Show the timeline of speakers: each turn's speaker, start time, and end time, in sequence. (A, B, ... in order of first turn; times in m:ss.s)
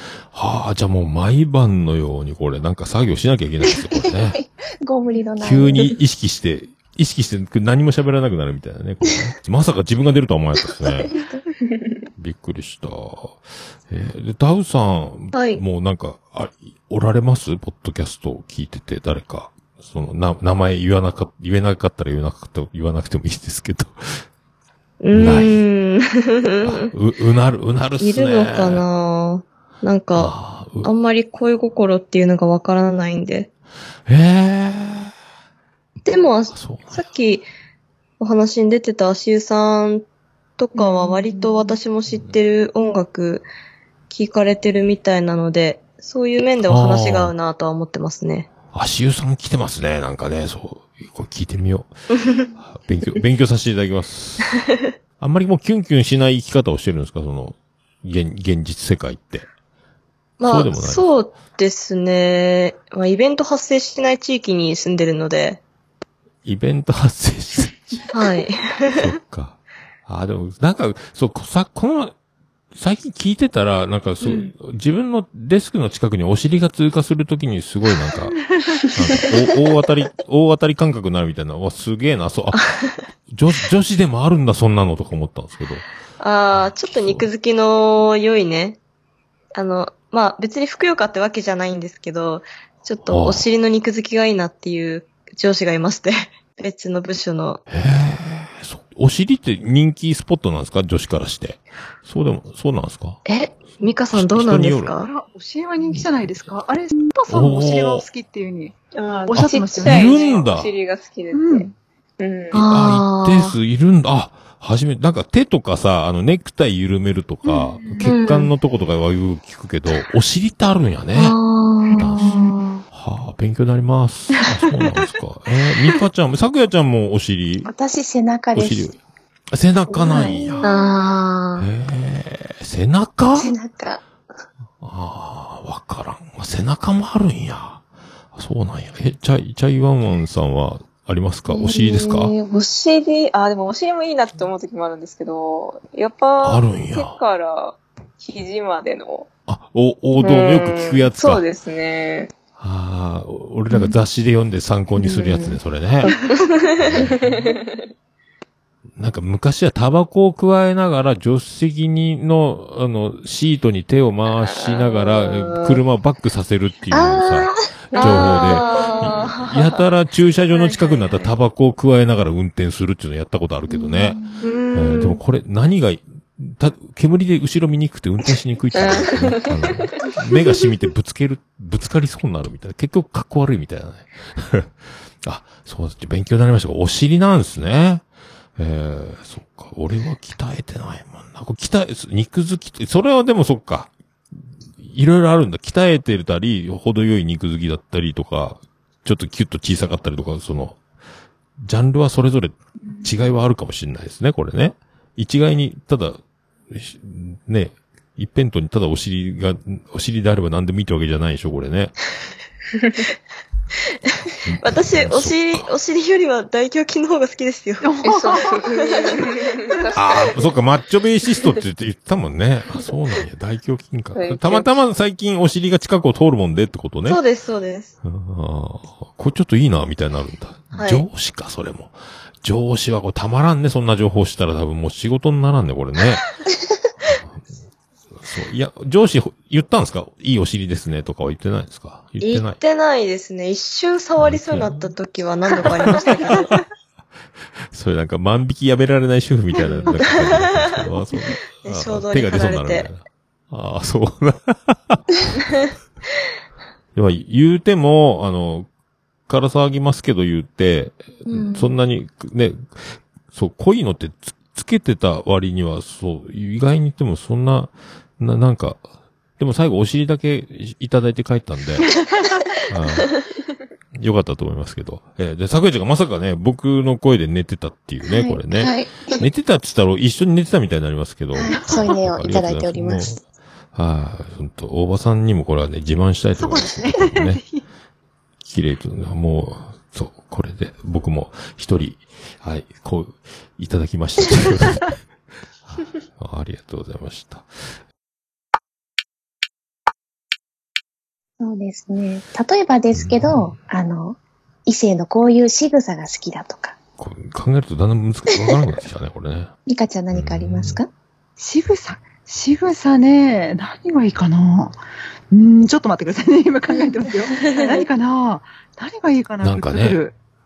0:00.2-0:04.4 A
0:04.0-0:05.9 B
0:05.4-0:11.1 A
0:11.1-0:11.4 B
0:12.2-0:24.2 A
0:15.3-0:15.6 C
0:25.0-0:26.9 C
0:25.1-0:25.6 A
0:26.6-0:28.8 A
0:28.0-0:33.5 C
0:30.1-0:30.9 A
0:34.1-0:35.1 A
0:36.0-0:37.4 C
0:36.5-0:37.1 A
0:38.2-0:40.0 C
0:40.6-0:43.4 C
0:40.8-0:41.8 B
0:42.1-0:42.4 A
0:44.1-0:48.5 C
0:46.6-0:47.3 A
0:48.7-0:51.9 A
0:52.1-0:52.5 C
0:52.6-0:54.5 A
0:54.6-0:54.9 C
0:55.2-0:59.5 A
1:00.4-1:05.6 C
1:00.4-1:01.1 A
1:06.4-1:08.1 A
1:08.1-1:09.1 C
1:08.9-1:12.1 A
1:12.7-1:18.4 A
1:14.2-1:14.5 C
1:18.9-1:22.6 A
1:22.5-1:23.0 C
1:23.3-1:25.8 A
1:26.2-1:28.8 C
1:26.5-1:27.3 A
1:29.5-1:37.6 C
1:33.0-1:33.5 A
1:37.7-1:43.2 A
1:43.2-1:45.1 C
1:44.1-1:45.0 A
1:45.0-1:48.7 D
1:45.8-1:46.5 A
1:47.3-1:48.0 A
1:48.9-1:52.6 E
1:49.2-1:50.4 D
1:49.3-1:50.7 A
1:51.3-1:51.7 D
1:52.5-1:53.6 C
1:52.5-2:01.4 A
1:58.0-1:58.5 C
2:01.1-2:02.8 C
2:02.0-2:07.7 A
2:07.6-2:09.0 B
2:08.5-2:09.0 A
2:09.5-2:10.7 A
2:09.9-2:10.9 B
2:10.6-2:11.7 C
2:11.6-2:13.5 A
2:13.3-2:14.0 B
2:14.8-2:17.8 A
2:18.3-2:22.3 A
2:21.7-2:29.3 E
2:26.4-2:27.2 A
2:29.5-2:31.4 A
2:30.2-2:32.3 E
2:32.6-2:36.1 A
2:35.0-2:36.3 E
2:36.8-2:37.4 A
2:36.9-2:37.9 E
2:39.0-2:54.2 A
2:44.4-2:45.8 E
2:46.9-2:48.0 B
2:47.9-2:49.8 C
2:48.0-2:49.0 E
2:50.5-2:51.2 C
2:53.7-2:54.4 B
2:54.4-2:55.2 C
2:54.7-3:08.0 A
2:58.8-2:59.6 E
3:08.6-3:13.9 A
3:14.8-3:20.8 A
3:21.6-3:26.2 A
3:26.7-3:31.9 A
3:34.4-3:35.7 A
3:34.6-3:38.0 C
3:37.8-3:38.6 D
3:38.0-3:40.3 E
3:38.7-3:39.1 C
3:39.9-3:47.2 A
3:44.1-3:44.7 E
3:47.0-3:47.9 C
3:48.0-3:56.2 A
3:50.7-3:51.0 C
3:57.0-3:57.5 A
3:58.2-4:02.6 A
4:02.2-4:06.6 C
4:04.2-4:04.9 A
4:05.6-4:06.2 A
4:07.7-4:15.4 A
4:09.6-4:12.9 C
4:16.9-4:18.7 A
4:19.3-4:28.8 A
4:21.2-4:21.8 C
4:29.4-4:31.9 A
4:32.7-4:33.1 A
4:34.0-4:43.2 A
4:38.1-4:39.2 B
4:41.4-4:43.2 B
4:43.7-4:47.4 A
4:46.4-4:47.6 D
4:48.4-4:55.0 A
4:55.7-4:57.7 A
5:01.4-5:06.8 B
5:02.9-5:03.6 A
5:07.0-5:09.5 A
5:09.7-5:10.9 B
5:10.1-5:10.8 A
5:11.4-5:14.7 D
5:15.3-5:20.1 D
5:17.3-5:17.8 C
5:19.4-5:20.0 A